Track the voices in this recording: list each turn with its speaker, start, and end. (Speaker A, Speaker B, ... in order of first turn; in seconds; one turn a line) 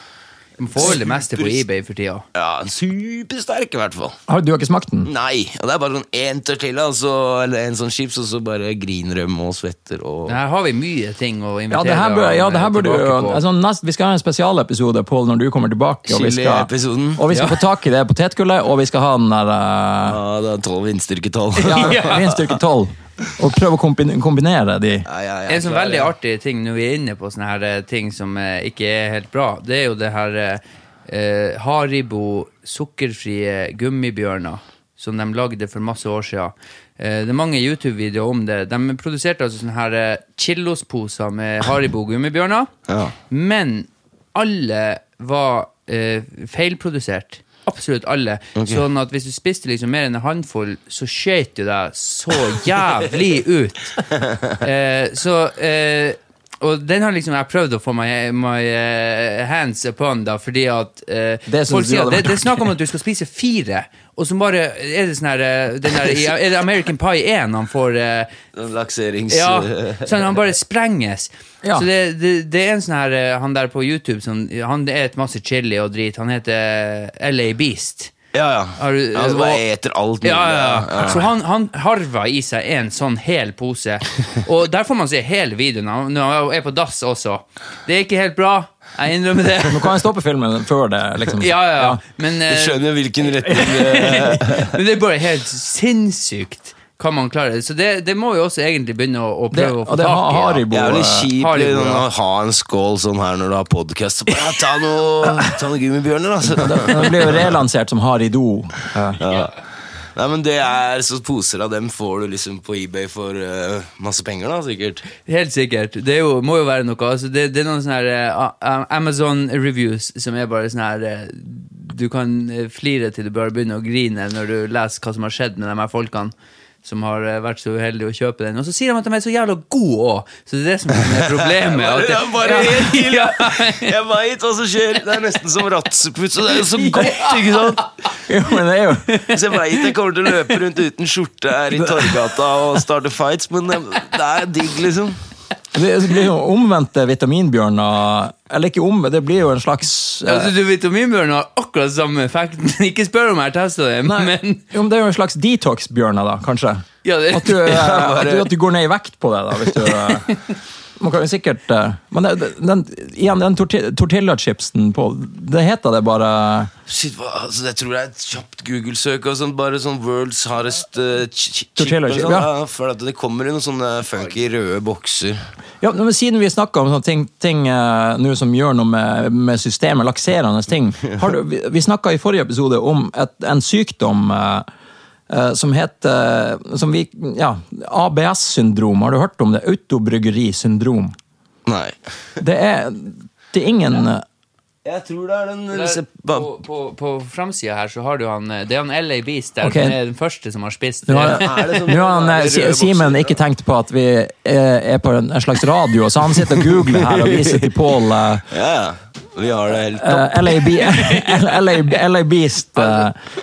Speaker A: 0.6-2.2
Speaker B: 0.7-1.6
Speaker B: 2.3-4.2
Speaker C: 4.3-5.1
Speaker B: 5.0-10.4
Speaker A: 10.2-13.4
Speaker C: 11.7-20.2
Speaker B: 16.1-17.2
Speaker A: 17.3-17.6
Speaker B: 20.0-22.5
Speaker C: 21.6-25.1
Speaker A: 21.6-22.3
Speaker B: 25.0-26.1
Speaker A: 25.5-42.7
Speaker B: 42.9-43.1
Speaker A: 43.3-68.3
Speaker B: 48.5-48.8
Speaker C: 61.5-62.7
Speaker B: 68.5-70.3
Speaker A: 69.3-78.1
Speaker B: 78.3-81.3
Speaker A: 78.8-79.6
Speaker A: 80.2-90.0
Speaker C: 89.6-92.0
Speaker A: 91.4-92.8
Speaker B: 92.5-94.8
Speaker A: 93.4-102.0
Speaker C: 99.5-101.3
Speaker B: 100.7-107.5
Speaker C: 106.5-109.2
Speaker B: 109.2-109.6
Speaker B: 110.1-115.0
Speaker A: 115.2-133.9
Speaker B: 131.1-137.8
Speaker A: 136.8-137.4
Speaker C: 138.2-139.3
Speaker B: 139.2-145.2
Speaker C: 145.7-150.5
Speaker A: 150.2-154.6
Speaker C: 154.0-160.4
Speaker A: 157.0-157.8
Speaker B: 157.6-158.5
Speaker C: 161.0-166.7
Speaker B: 166.9-175.4
Speaker C: 171.8-172.5
Speaker C: 175.8-184.7
Speaker C: 185.3-191.1
Speaker B: 191.7-192.0
Speaker C: 192.4-194.2
Speaker B: 194.8-196.5
Speaker A: 195.7-201.8
Speaker C: 199.6-199.9
Speaker C: 201.1-208.5
Speaker B: 201.2-203.4
Speaker B: 206.6-207.7
Speaker B: 208.5-210.6
Speaker C: 209.9-213.2
Speaker A: 212.8-213.1